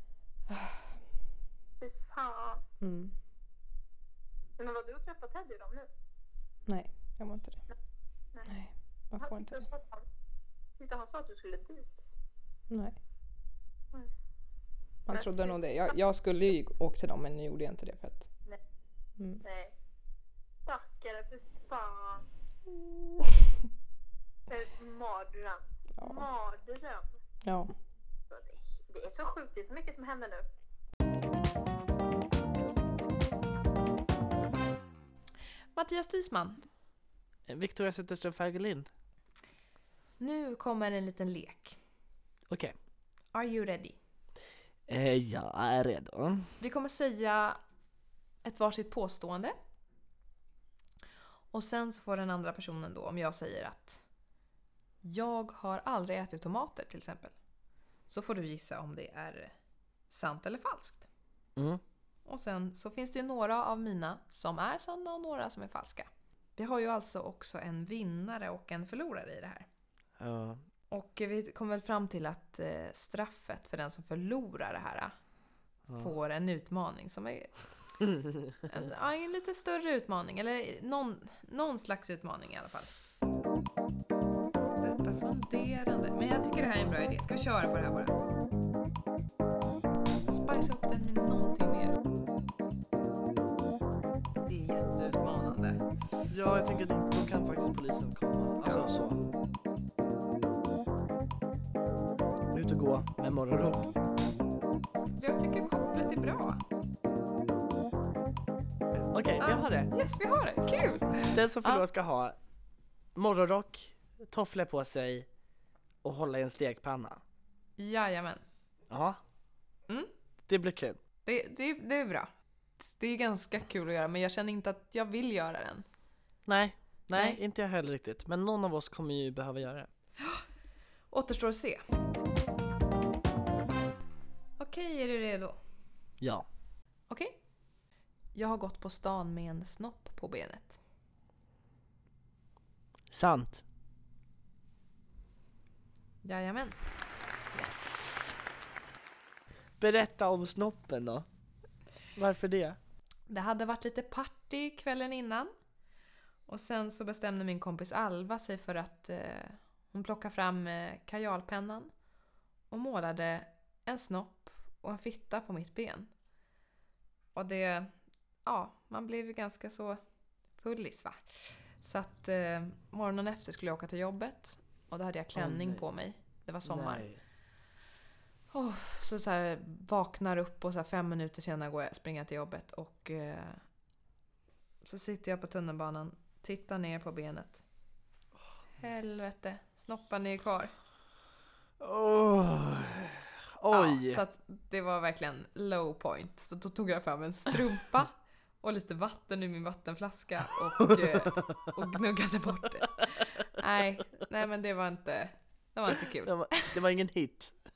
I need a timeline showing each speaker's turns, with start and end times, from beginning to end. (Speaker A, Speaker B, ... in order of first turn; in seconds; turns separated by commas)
Speaker A: 0.5-0.8, Speaker B: 1.8-2.6, Speaker B: 4.6-5.9, Speaker A: 6.7-7.5, Speaker A: 9.2-9.6, Speaker B: 9.2-10.1, Speaker B: 10.8-12.0, Speaker B: 15.1-15.9, Speaker A: 15.1-18.2, Speaker B: 19.4-19.7, Speaker B: 20.6-22.3, Speaker B: 24.5-27.2, Speaker B: 28.3-30.4, Speaker A: 35.8-36.6, Speaker C: 37.5-38.9, Speaker A: 40.2-41.8, Speaker C: 42.5-42.7, Speaker A: 43.3-44.0, Speaker C: 44.9-46.5, Speaker A: 46.6-47.6, Speaker A: 48.4-49.5, Speaker A: 51.5-54.0, Speaker A: 55.0-57.4, Speaker A: 58.1-59.5, Speaker A: 60.1-61.1, Speaker C: 61.5-61.8, Speaker A: 62.2-69.7, Speaker C: 70.2-70.6, Speaker A: 70.9-75.2, Speaker C: 75.9-76.1, Speaker A: 75.9-77.6, Speaker A: 78.7-82.9, Speaker A: 84.8-88.1, Speaker A: 90.3-92.0, Speaker A: 94.4-95.8, Speaker C: 96.3-99.2, Speaker C: 102.5-103.9, Speaker A: 105.2-106.6, Speaker C: 109.1-109.9, Speaker A: 109.4-111.8, Speaker C: 111.2-112.4, Speaker C: 113.1-115.3, Speaker C: 116.0-117.2, Speaker A: 117.8-118.4, Speaker C: 118.9-119.2, Speaker C: 120.5-121.0, Speaker A: 121.2-125.8, Speaker C: 126.5-129.9, Speaker A: 127.1-127.4, Speaker A: 131.1-131.8, Speaker A: 134.6-135.6, Speaker C: 136.2-136.4, Speaker A: 137.1-137.4, Speaker A: 138.3-140.8, Speaker C: 143.1-143.6, Speaker A: 146.2-146.9, Speaker A: 147.5-148.3, Speaker C: 149.8-151.2, Speaker C: 152.2-152.8, Speaker A: 153.3-155.5, Speaker A: 156.5-161.9, Speaker A: 162.7-166.1, Speaker A: 167.3-167.9, Speaker A: 168.4-170.0, Speaker A: 170.5-177.1, Speaker C: 175.3-175.8, Speaker C: 176.6-177.2, Speaker A: 178.5-183.6, Speaker A: 184.8-187.6, Speaker A: 188.8-190.7, Speaker C: 191.8-194.2, Speaker A: 193.7-206.8, Speaker C: 200.9-201.6, Speaker C: 206.0-207.5